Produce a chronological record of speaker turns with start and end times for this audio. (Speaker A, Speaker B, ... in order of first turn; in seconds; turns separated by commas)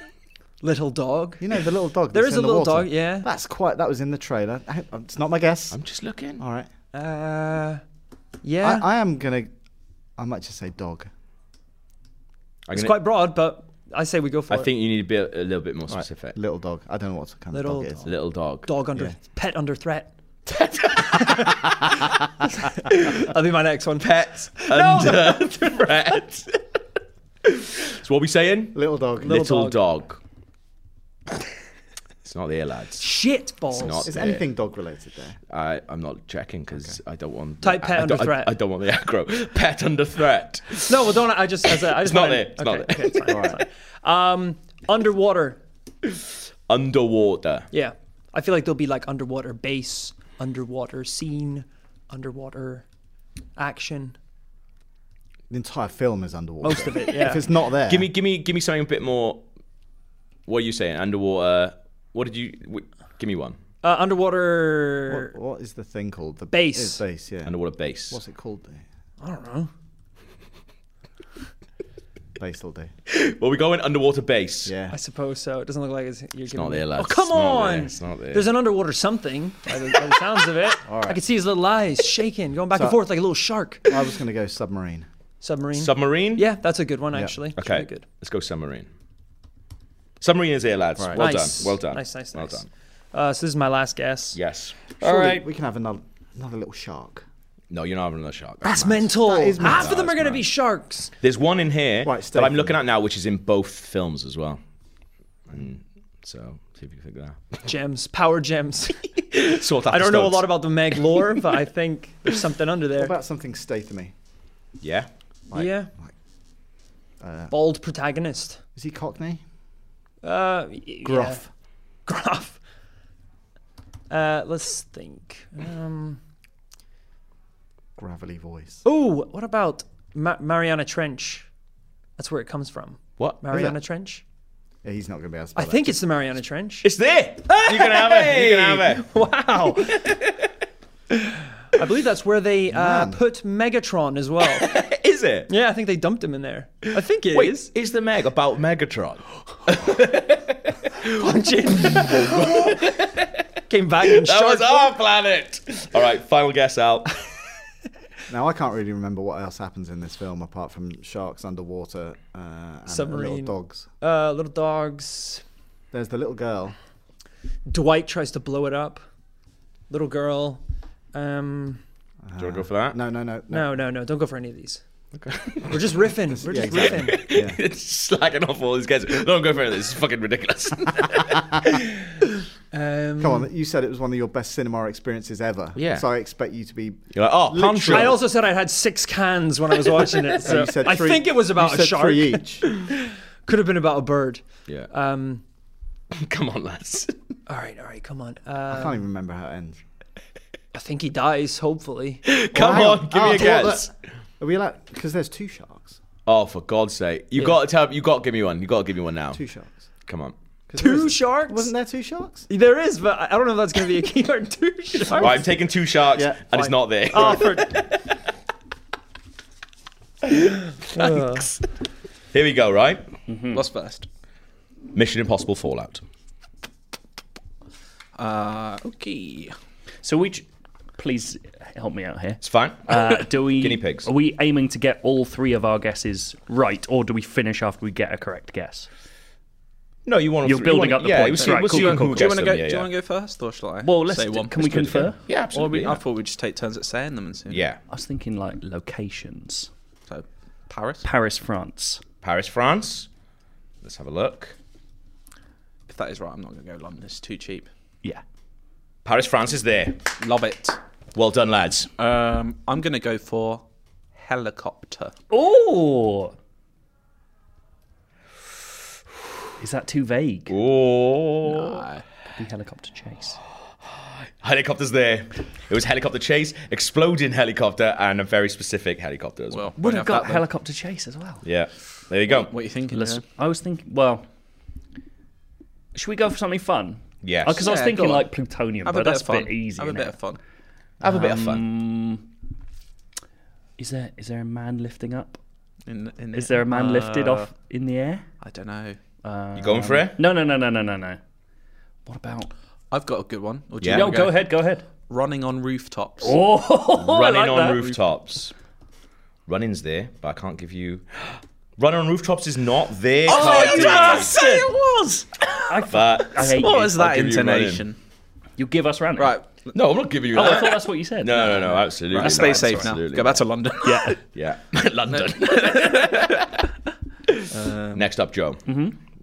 Speaker A: 0.6-1.4, Speaker B: 1.4-5.8, Speaker A: 2.1-3.3, Speaker C: 5.7-6.4, Speaker B: 6.4-6.7, Speaker A: 6.9-7.8, Speaker A: 8.4-8.9, Speaker B: 8.6-9.5, Speaker B: 10.2-11.1, Speaker C: 12.7-13.0, Speaker A: 12.7-14.7, Speaker C: 14.5-16.4, Speaker B: 15.9-18.1, Speaker A: 17.5-20.1, Speaker C: 18.0-18.7, Speaker C: 20.5-21.6, Speaker A: 21.1-21.7, Speaker A: 22.9-25.9, Speaker C: 24.0-26.6, Speaker C: 27.4-30.2, Speaker B: 28.7-29.4, Speaker A: 29.2-29.8, Speaker C: 32.2-33.1, Speaker A: 33.0-34.1, Speaker C: 33.7-34.5, Speaker B: 34.0-35.4, Speaker C: 35.5-43.6, Speaker A: 37.6-38.5, Speaker A: 40.9-45.6, Speaker B: 43.2-43.6, Speaker C: 46.1-47.7, Speaker A: 47.7-52.8, Speaker A: 53.5-54.1, Speaker B: 55.5-58.1, Speaker A: 56.6-57.5, Speaker C: 57.9-59.4, Speaker C: 60.5-63.6, Speaker A: 63.8-65.3, Speaker B: 65.1-68.8, Speaker A: 66.5-67.0, Speaker C: 67.4-68.2, Speaker A: 69.2-69.7, Speaker B: 72.4-72.9, Speaker C: 73.1-74.7, Speaker B: 74.6-75.0, Speaker A: 74.9-83.9, Speaker C: 76.5-78.5, Speaker B: 80.8-81.2, Speaker B: 82.7-83.0, Speaker B: 83.8-85.0, Speaker A: 85.4-88.0, Speaker C: 85.8-86.5, Speaker C: 87.5-88.9, Speaker C: 90.2-92.7, Speaker B: 91.0-91.3, Speaker A: 91.1-94.4, Speaker C: 94.3-94.7, Speaker B: 95.0-97.2, Speaker A: 95.0-95.4, Speaker C: 97.7-100.4, Speaker A: 98.6-101.1, Speaker B: 99.2-100.0, Speaker C: 101.2-104.6, Speaker B: 102.0-102.8, Speaker C: 105.5-107.6, Speaker A: 107.6-113.1, Speaker C: 109.3-110.5, Speaker B: 113.0-114.1, Speaker C: 114.8-115.1, Speaker B: 115.5-116.1, Speaker A: 115.5-115.9, Speaker B: 117.2-117.5, Speaker A: 117.5-118.6, Speaker B: 118.7-119.4, Speaker A: 120.2-121.4, Speaker B: 121.0-121.4, Speaker A: 122.0-122.6, Speaker A: 124.1-126.2, Speaker B: 128.0-128.8, Speaker A: 128.8-131.5, Speaker A: 132.2-134.2, Speaker C: 133.2-133.4, Speaker B: 133.5-133.8, Speaker B: 134.8-136.0, Speaker A: 135.6-136.9, Speaker C: 136.8-139.1, Speaker A: 137.5-140.2, Speaker A: 141.8-144.7, Speaker B: 142.7-143.2, Speaker C: 144.4-145.5, Speaker A: 145.5-147.7, Speaker C: 147.3-153.3, Speaker A: 151.0-152.8, Speaker A: 153.7-154.9, Speaker C: 154.0-157.1, Speaker B: 158.3-163.8, Speaker A: 162.9-165.4, Speaker B: 165.9-166.8, Speaker A: 167.7-169.0, Speaker A: 169.9-170.6, Speaker A: 171.1-171.8, Speaker B: 172.2-173.7, Speaker C: 172.4-173.0, Speaker A: 173.5-174.8, Speaker C: 175.2-175.9, Speaker A: 175.7-177.3, Speaker B: 176.4-177.6, Speaker C: 176.7-181.8, Speaker A: 182.7-183.5, Speaker B: 183.2-188.2, Speaker C: 185.7-186.1, Speaker C: 187.1-188.2, Speaker A: 187.9-195.4, Speaker B: 190.4-192.8, Speaker C: 196.1-197.2, Speaker A: 197.5-199.0, Speaker B: 198.7-199.8, Speaker A: 200.7-202.3, Speaker C: 202.2-203.9, Speaker B: 202.5-203.9, Speaker B: 204.4-206.0, Speaker C: 206.2-209.4, Speaker B: 209.3-209.9, Speaker C: 210.1-210.3, Speaker B: 210.7-212.5, Speaker A: 210.8-211.7, Speaker A: 212.5-215.4, Speaker C: 215.1-218.0, Speaker B: 216.1-217.4, Speaker A: 216.5-217.8, Speaker A: 220.9-221.5, Speaker C: 220.9-221.4, Speaker C: 222.3-223.0, Speaker D: 223.3-223.6, Speaker E: 223.5-224.1, Speaker C: 224.9-226.0, Speaker E: 228.2-229.5, Speaker D: 230.0-230.4, Speaker D: 231.0-238.9, Speaker C: 232.4-234.1, Speaker C: 240.0-242.9, Speaker D: 240.4-242.3, Speaker E: 241.4-247.6, Speaker D: 243.8-245.2, Speaker C: 244.6-246.0, Speaker C: 247.5-247.8, Speaker D: 247.9-249.7, Speaker E: 250.1-251.0, Speaker D: 251.0-252.0, Speaker C: 252.2-253.1, Speaker C: 253.8-254.6, Speaker E: 255.9-257.7, Speaker C: 259.0-260.0, Speaker E: 260.2-260.8, Speaker C: 261.1-261.9, Speaker E: 262.0-263.6, Speaker E: 264.2-265.1, Speaker D: 265.3-266.3, Speaker D: 269.6-270.5, Speaker C: 270.5-271.8, Speaker E: 271.5-272.0, Speaker D: 272.4-273.4, Speaker C: 274.4-279.7, Speaker E: 279.5-280.4, Speaker D: 279.8-281.4, Speaker C: 281.4-282.5, Speaker E: 282.3-283.2, Speaker D: 282.9-284.2, Speaker D: 285.9-290.2, Speaker C: 287.2-287.6, Speaker E: 287.6-288.3, Speaker E: 288.8-290.4, Speaker C: 291.0-291.7, Speaker D: 291.0-292.2, Speaker D: 293.8-295.4, Speaker E: 295.9-297.5, Speaker D: 296.3-298.2, Speaker E: 298.4-299.0, Speaker D: 299.2-301.2, Speaker C: 299.5-300.2, Speaker D: 302.1-302.5, Speaker E: 302.9-304.6, Speaker C: 303.8-304.1, Speaker D: 303.9-304.8, Speaker E: 305.1-306.4, Speaker D: 306.2-307.9, Speaker C: 307.0-308.5, Speaker C: 309.4-314.4, Speaker E: 313.3-318.0, Speaker D: 313.3-314.6, Speaker D: 315.7-316.9, Speaker C: 315.9-317.8, Speaker D: 318.6-319.3, Speaker E: 319.2-319.8, Speaker C: 319.7-323.6, Speaker D: 320.3-322.9, Speaker E: 322.1-324.2, Speaker D: 323.8-324.2, Speaker C: 324.3-326.5, Speaker E: 325.2-326.5, Speaker E: 327.5-328.1, Speaker C: 327.9-328.6, Speaker D: 328.6-329.0